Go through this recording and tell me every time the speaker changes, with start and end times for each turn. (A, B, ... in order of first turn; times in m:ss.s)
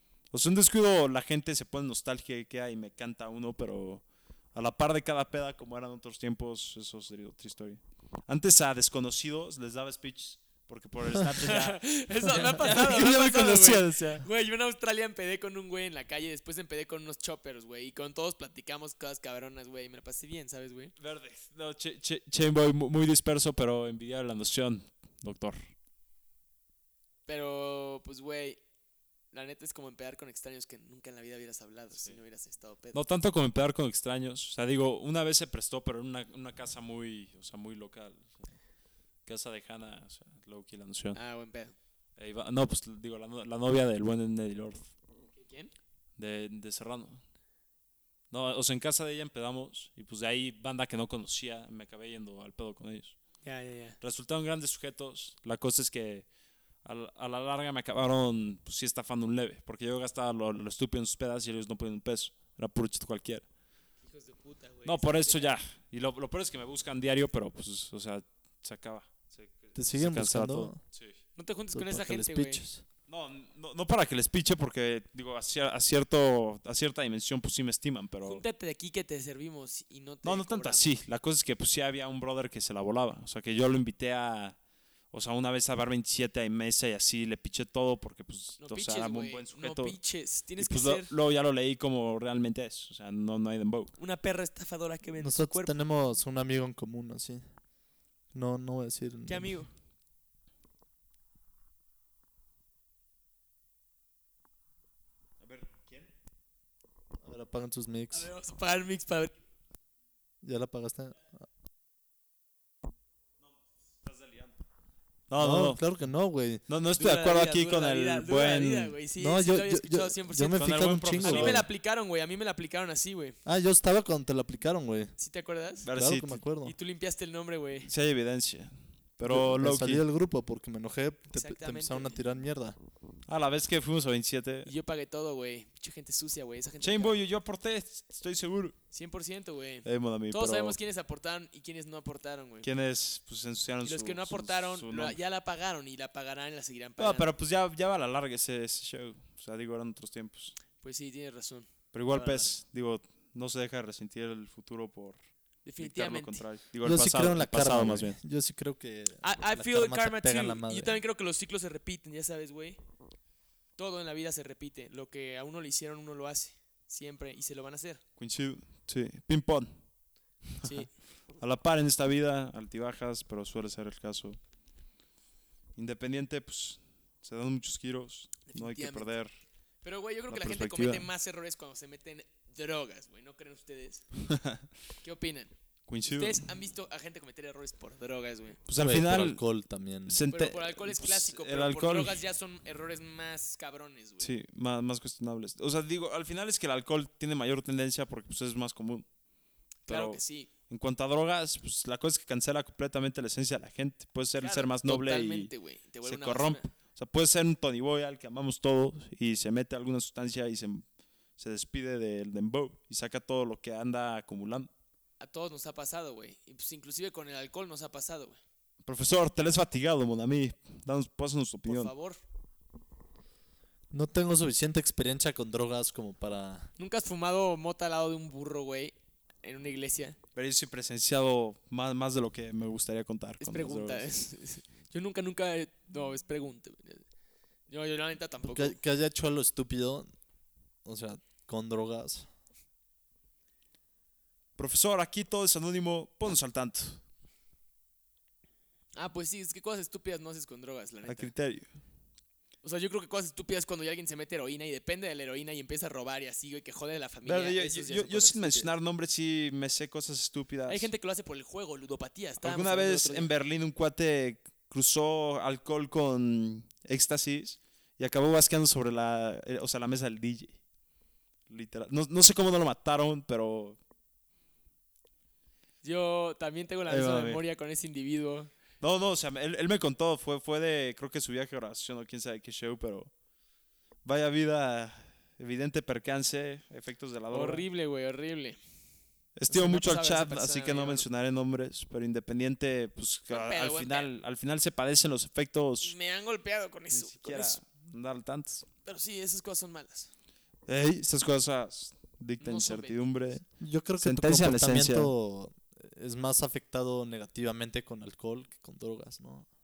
0:00.3-0:14.2 A
0:11.4-0:20.9 B
0:21.0-0:25.6 A
0:27.3-0:28.6 B
0:29.3-0:33.0 B
0:32.9-0:38.5 A
0:39.2-0:41.2 A
0:41.1-0:41.7 B
0:42.2-0:44.9 A
0:45.3-0:45.7 B
0:46.2-0:47.2 A
0:48.3-0:53.2 A
0:53.4-0:54.0 B
0:54.0-0:56.3 A
0:56.8-1:03.4 A
1:04.0-1:05.6 B
1:04.8-1:11.2 A
1:09.7-1:10.8 C
1:11.4-1:12.6 B
1:11.7-1:12.8 C
1:13.1-1:18.4 A
1:18.2-1:20.9 B
1:20.2-1:24.6 A
1:25.1-1:30.0 A
1:28.6-1:31.1 B
1:30.6-1:33.9 A
1:34.0-1:35.7 B
1:35.2-1:37.4 C
1:38.3-1:39.5 C
1:39.3-1:39.7 B
1:45.4-1:46.1 A
1:47.2-1:48.3 C
1:48.1-1:49.4 B
1:50.4-1:51.4 C
1:53.4-1:54.6 A
1:55.3-1:55.8 A
1:55.4-1:56.6 C
1:56.7-1:58.9 A
1:57.0-2:03.4 B
1:59.2-2:01.7 C
2:00.6-2:01.6 A
2:03.4-2:05.1 C
2:05.2-2:05.9 B
2:05.8-2:06.4 A
2:05.9-2:06.7 C
2:06.6-2:07.9 B
2:07.8-2:10.0 A
2:09.2-2:12.8 C
2:11.3-2:12.2 B
2:13.3-2:14.7 A
2:14.6-2:17.2 B
2:16.8-2:18.8 A
2:18.9-2:22.7 B
2:19.8-2:20.8 A
2:22.6-2:25.2 A
2:23.8-2:27.3 B
2:27.0-2:30.6 A
2:30.8-2:32.5 B
2:31.9-2:35.2 A
2:35.6-2:36.4 B
2:35.8-2:38.2 A
2:36.8-2:41.0 C
2:39.2-2:42.8 B
2:43.8-2:48.0 B
2:48.2-2:49.8 A
2:50.6-2:50.8 A
2:50.6-2:50.9 B
2:51.4-2:54.4 A
2:55.8-2:59.3 A
2:58.5-2:59.1 B
2:59.8-3:04.0 B
3:00.3-3:01.1 A
3:04.2-3:04.6 A
3:05.0-3:05.5 B
3:05.9-3:06.4 A
3:06.1-3:08.6 B
3:08.7-3:09.4 A
3:08.8-3:10.2 C
3:10.1-3:12.2 A
3:10.3-3:14.3 B
3:14.2-3:19.0 A
3:19.9-3:20.5 B
3:19.9-3:25.5 A
3:24.4-3:26.7 B
3:26.0-3:30.8 A
3:31.4-3:34.7 A
3:35.2-3:38.4 B
3:38.8-3:41.9 A
3:41.6-3:42.2 B
3:43.9-3:46.7 C
3:46.8-3:50.2 B
3:50.3-3:54.1 A
3:53.4-3:57.0 B
3:57.7-3:58.8 B
3:58.4-4:00.1 C
4:00.8-4:02.3 C
4:04.6-4:07.0 A
4:08.9-4:11.3 B
4:11.0-4:11.7 A
4:12.6-4:18.7 B
4:17.2-4:20.9 A
4:20.7-4:23.3 B
4:22.4-4:30.6 A
4:31.5-4:33.8 A
4:35.8-4:38.5 B
4:36.9-4:37.4 A
4:38.8-4:43.1 A
4:44.0-4:47.6 A
4:47.3-4:48.6 B
4:49.4-4:55.9 A
4:49.5-4:51.0 B
4:53.3-4:54.1 B
4:55.8-4:57.6 B
4:56.9-4:58.6 A
4:58.8-5:00.1 B
5:00.7-5:03.4 A
5:02.4-5:03.0 B
5:03.6-5:09.4 C
5:04.0-5:05.1 A